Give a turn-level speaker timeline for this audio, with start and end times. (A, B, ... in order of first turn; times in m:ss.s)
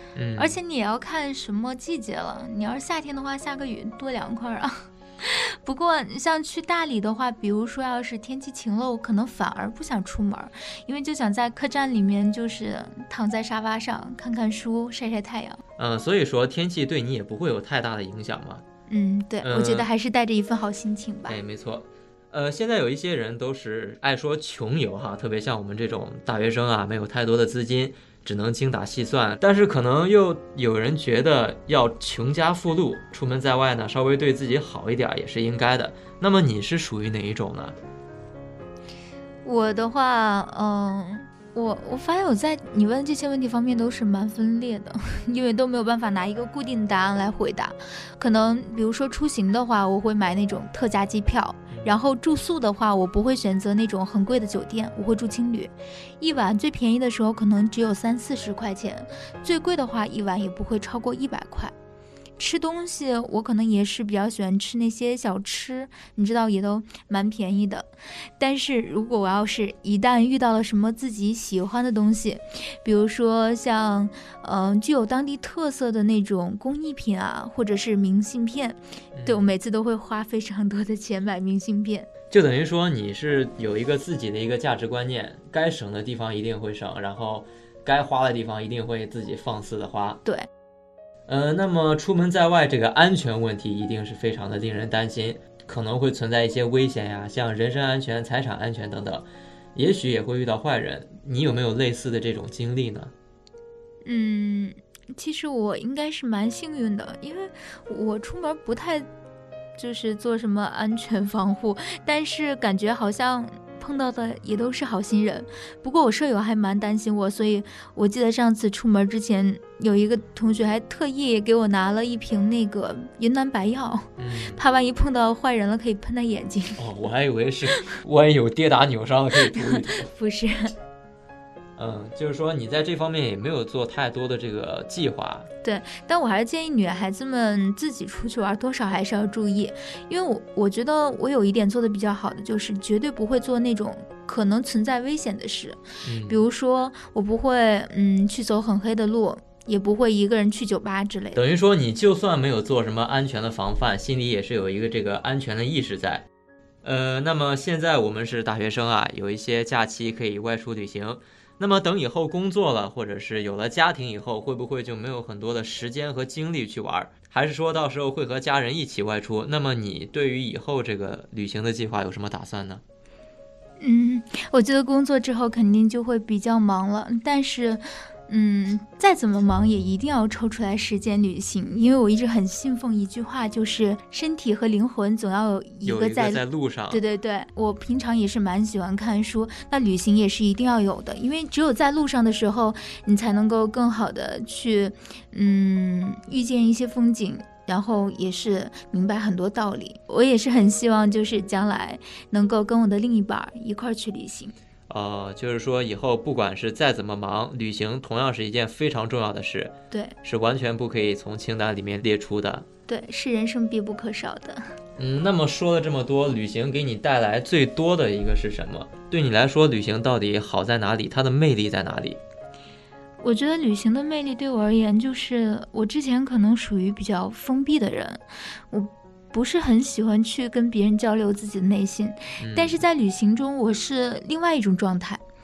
0:00.2-0:00.6 A
0:00.4-0:15.6 B
0:15.8-0:18.6 A
0:18.9-0:21.4 B
0:19.4-0:19.9 A
0:21.3-0:37.8 A
0:39.4-1:01.7 B
1:02.4-1:22.1 B
1:19.1-1:19.5 A
1:22.3-1:30.2 A
1:31.3-1:43.1 A
1:44.0-1:49.1 B
1:49.8-2:06.8 B
2:04.2-2:04.6 A
2:06.8-2:10.1 A
2:09.5-2:10.7 B
2:11.8-2:15.5 A
2:15.6-2:31.4 B
2:26.0-2:26.4 A
2:31.3-2:36.2 A
2:36.8-2:52.8 A
2:53.8-3:24.5 B
3:05.8-3:07.0 A
3:24.9-3:32.6 A
3:32.9-3:34.6 B
3:35.0-3:42.2 A
3:43.2-3:55.2 B
3:52.4-3:52.8 A